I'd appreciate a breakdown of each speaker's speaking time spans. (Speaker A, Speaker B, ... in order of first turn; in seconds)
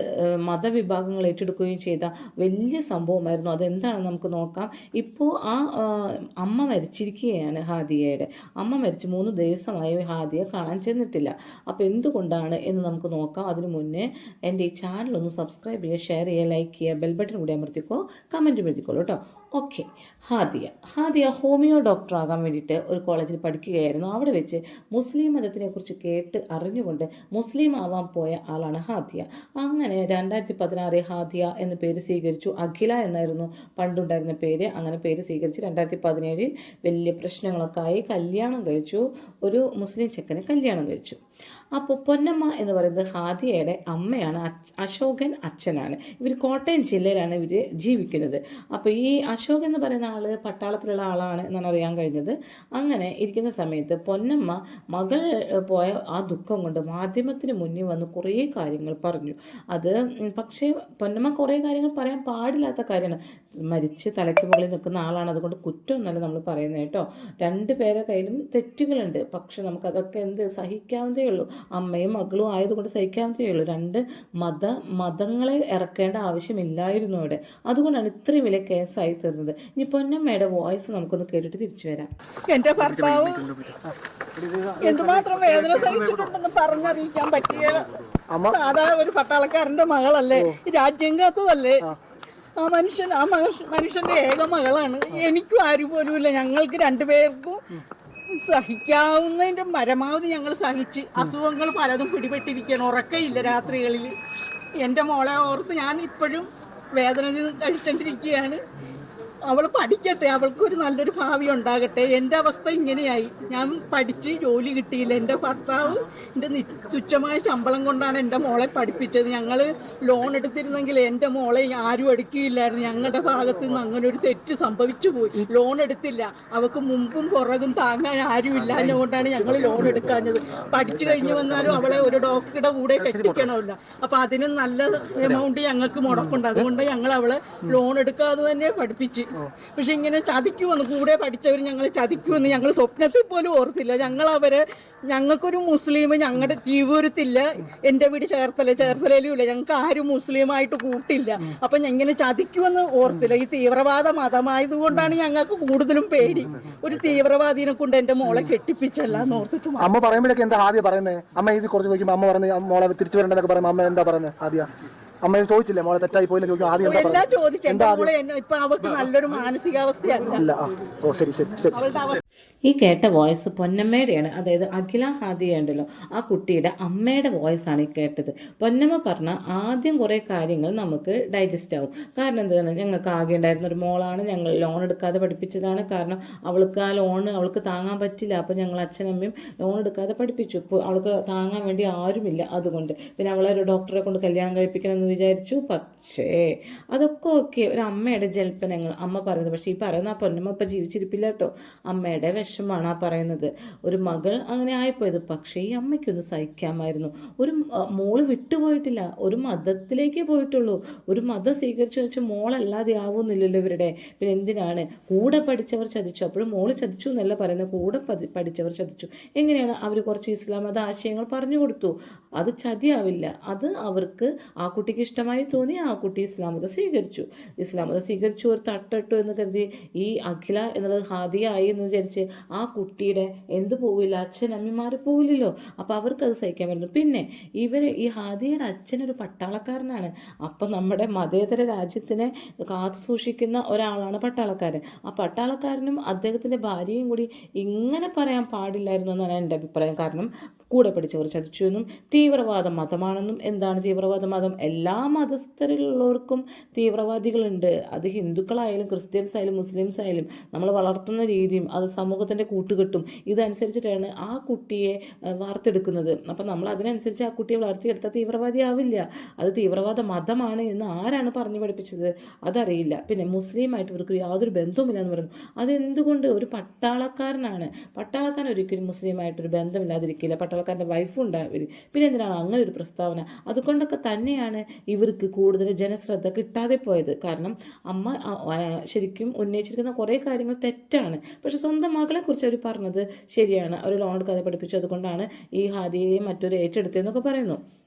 Speaker A: 0.4-41.2, 41.8-82.1, 172.7-297.6
Speaker B: 82.5-83.7, 84.8-87.9, 88.5-91.8, 92.6-97.6, 98.4-104.1, 104.8-106.5, 107.0-108.6, 109.5-160.1, 166.8-170.5, 171.7-172.2
Speaker C: 83.9-86.0, 88.3-88.6, 128.7-129.0, 129.6-130.2, 130.8-131.9, 133.0-133.5, 136.1-136.4, 153.1-153.4, 159.1-164.7, 165.2-168.1, 170.3-171.8